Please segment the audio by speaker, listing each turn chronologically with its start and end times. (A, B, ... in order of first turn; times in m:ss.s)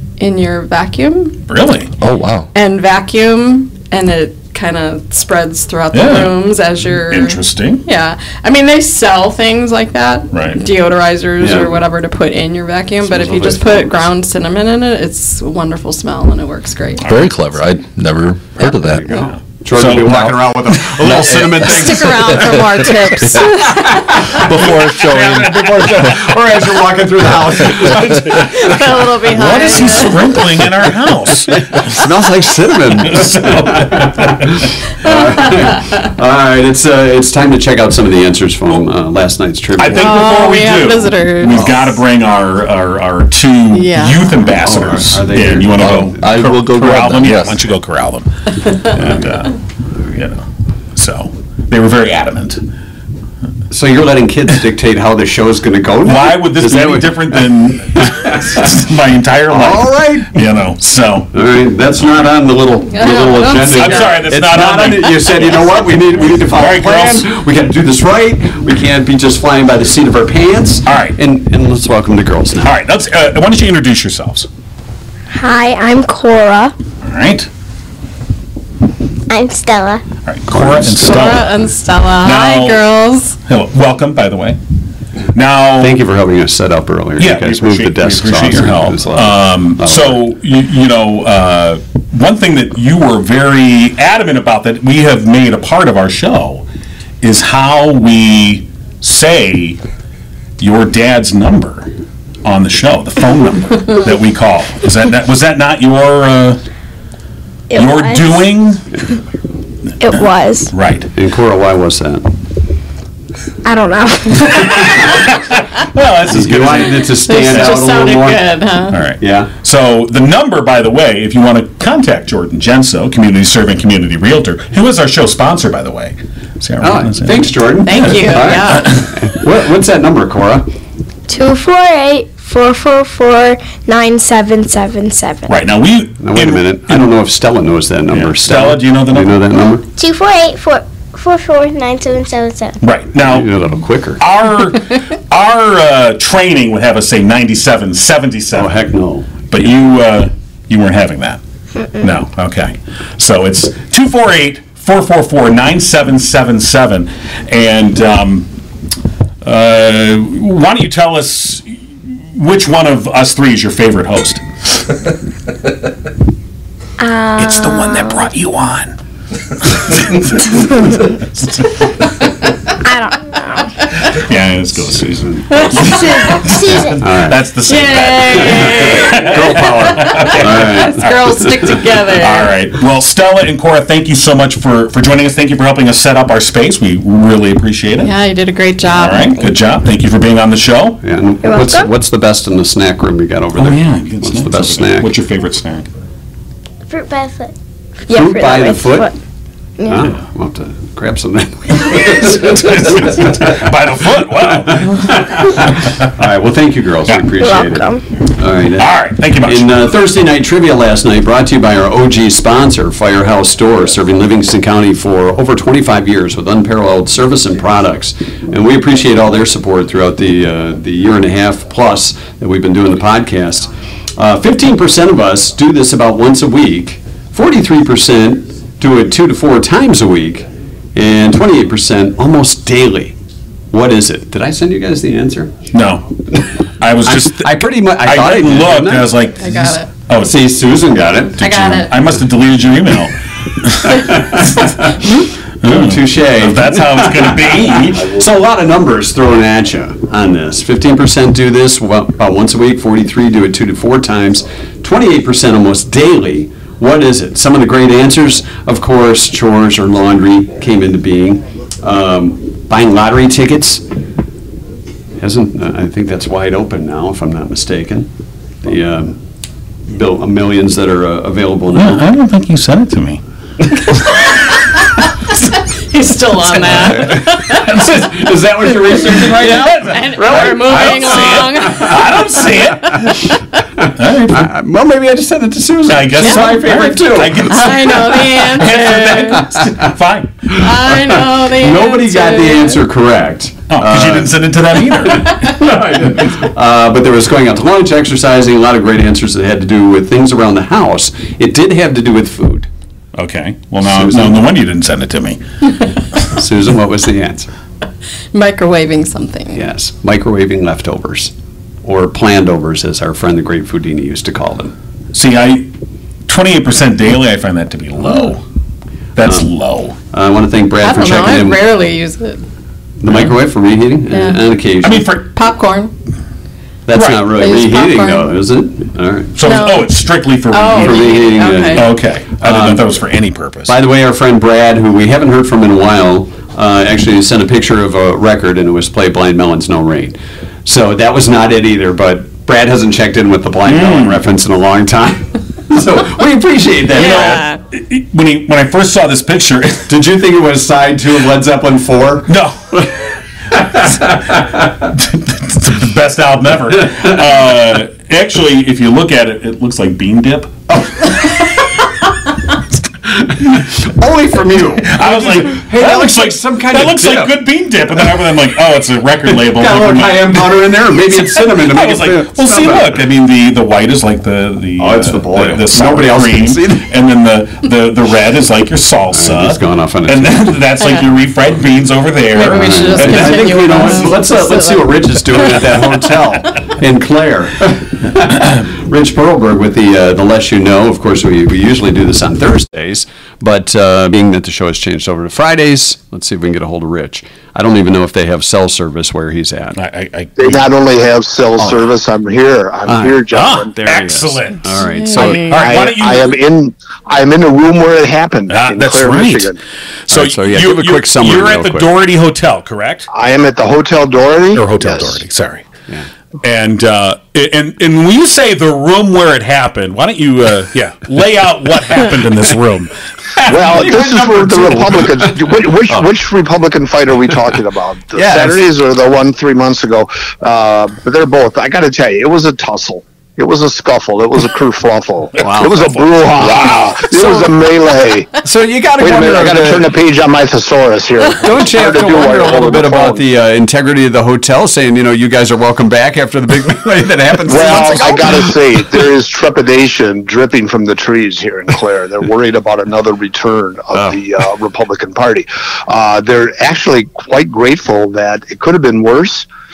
0:00.2-0:01.4 A
0:01.5-0:01.9 B
0:02.0-0:02.5 C
0:02.5-0:17.1 A
0:05.9-0:06.4 B
0:07.1-0:07.8 B
0:10.3-0:10.6 B
0:11.4-0:11.8 D
0:13.0-0:14.1 D
0:17.0-0:19.2 C
0:18.9-0:22.4 D
0:19.7-0:22.1 B
0:20.0-0:20.4 C
0:21.6-0:24.1 A
0:23.5-0:24.5 D
0:24.4-0:26.2 C
0:24.5-0:26.2 B
0:25.5-0:28.6 D
0:27.7-0:32.0 B
0:28.4-0:30.4 A
0:31.5-0:40.3 D
0:33.0-0:34.7 B
0:39.8-0:49.6 B
0:40.0-0:42.0 A
0:43.7-0:44.4 A
0:44.6-0:46.2 D
0:45.8-0:47.6 C
0:50.1-0:50.4 B
0:51.0-0:52.6 B
0:53.7-0:57.4 D
0:56.0-1:01.3 B
0:58.0-0:58.6 D
0:59.5-1:00.4 D
1:01.3-1:12.8 D
1:02.9-1:04.2 A
1:03.7-1:07.3 B
1:10.9-1:11.2 B
1:12.6-1:14.5 B
1:15.3-1:16.8 E
1:17.0-1:17.5 B
1:19.3-1:20.0 E
1:20.2-1:21.6 B
1:20.5-1:21.3 D
1:21.0-1:23.4 A
1:22.2-1:22.8 B
1:23.5-1:24.6 B
1:25.3-1:26.0 B
1:25.8-1:30.2 D
1:27.2-1:36.6 B
1:37.2-1:39.8 B
1:40.6-1:41.9 B
1:42.4-1:46.6 B
1:47.7-1:48.4 E
1:47.7-1:48.8 B
1:50.0-1:50.7 E
1:50.7-1:51.1 B
1:51.2-1:52.3 D
1:53.6-1:55.1 E
1:54.9-1:57.8 B
1:56.3-1:58.5 D
1:57.1-1:59.0 A
1:58.9-2:09.1 B
1:59.2-1:59.5 D
2:06.8-2:10.7 D
2:07.8-2:09.0 A
2:11.3-2:15.6 E
2:15.5-2:17.2 B
2:16.2-2:19.9 D
2:18.1-2:19.4 B
2:20.0-2:22.8 E
2:22.8-2:23.5 B
2:23.2-2:24.2 D
2:24.2-2:28.9 B
2:28.5-2:29.3 D
2:29.5-2:31.4 B
2:32.0-2:38.5 B
2:39.4-2:41.6 B
2:42.3-2:44.9 B
2:47.0-2:48.2 E
2:47.4-2:49.0 B
2:49.6-2:51.0 B
2:52.8-2:53.8 E
2:54.1-3:01.4 B
2:55.3-2:56.0 D
2:55.7-2:57.0 E
2:57.0-2:57.4 D
2:57.6-3:02.5 A
2:58.4-3:01.1 D
3:02.1-3:08.1 B
3:08.0-3:09.5 A
3:08.9-3:11.0 B
3:11.0-3:15.1 D
3:11.4-3:11.9 E
3:13.6-3:15.9 B
3:16.9-3:17.5 E
3:18.1-3:19.2 E
3:18.1-3:19.1 D
3:19.8-3:20.0 E
3:19.9-3:23.7 D
3:21.8-3:26.1 B
3:24.6-3:53.2 D
3:27.4-3:28.0 E
3:28.8-3:29.9 B
3:53.7-3:55.5 D
3:55.7-3:56.1 B
3:56.8-4:00.4 B
3:57.0-3:59.2 D
3:59.4-3:59.9 A
4:00.2-4:01.6 D
4:01.4-4:04.8 B
4:01.4-4:01.9 A
4:03.8-4:05.0 D
4:05.6-4:08.1 B
4:05.6-4:23.8 D
4:25.2-4:28.1 D
4:28.6-4:29.2 D
4:29.9-4:32.1 D
4:31.7-4:33.2 B
4:35.9-4:37.7 A
4:36.6-4:42.0 D
4:37.6-4:38.1 B
4:39.2-4:44.5 B
4:39.8-4:42.5 A
4:43.8-4:48.0 D
4:45.9-4:50.5 B
4:46.2-4:46.5 A
4:47.5-4:49.5 A
4:50.5-4:54.4 D
4:50.5-4:52.8 A
4:53.7-4:55.4 B
4:55.0-5:02.7 D
5:03.2-5:05.4 B
5:03.8-5:04.5 D
5:06.3-5:07.5 D
5:08.3-5:09.6 A
5:09.5-5:11.3 D
5:11.8-5:14.7 D
5:15.1-5:15.7 B
5:16.3-5:18.4 B
5:19.2-5:20.0 B
5:19.2-5:19.5 D
5:20.1-5:21.7 D
5:20.8-5:22.4 A
5:23.0-5:25.1 D
5:23.1-5:23.3 B
5:24.1-5:24.4 A
5:24.8-5:25.3 B
5:25.3-5:25.9 A
5:26.9-5:29.4 D
5:26.9-5:27.3 B
5:27.3-5:28.3 A
5:29.4-5:33.7 B
5:29.4-5:31.9 A
5:30.7-5:32.9 D
5:33.7-5:47.4 D
5:43.7-5:44.2 B
5:46.9-5:49.9 B
5:47.0-5:47.6 A
5:49.9-5:52.3 D
5:52.3-5:53.0 B
5:53.6-6:01.5 B
5:53.6-5:54.5 D
6:03.1-6:07.4 D
6:04.8-6:23.9 B
6:09.3-6:13.0 D
6:14.8-6:16.9 D
6:19.1-6:20.6 D
6:22.3-6:25.0 A
6:22.5-6:39.8 D
6:39.8-6:40.7 B
6:40.4-6:43.7 F
6:42.9-6:45.5 D
6:43.3-6:46.4 B
6:44.8-6:45.6 A
6:45.5-6:49.6 F
6:48.5-6:49.6 B
6:50.1-6:53.1 B
6:50.1-6:51.9 D
6:53.1-6:55.2 F
6:54.5-6:55.7 B
6:56.4-7:04.8 B
7:03.4-7:18.4 F
7:03.5-7:05.0 D
7:08.1-7:08.6 D
7:15.4-7:15.8 D
7:15.4-7:17.1 B
7:18.4-7:19.9 D
7:19.0-7:23.2 F
7:21.4-7:28.6 D
7:27.4-7:39.5 F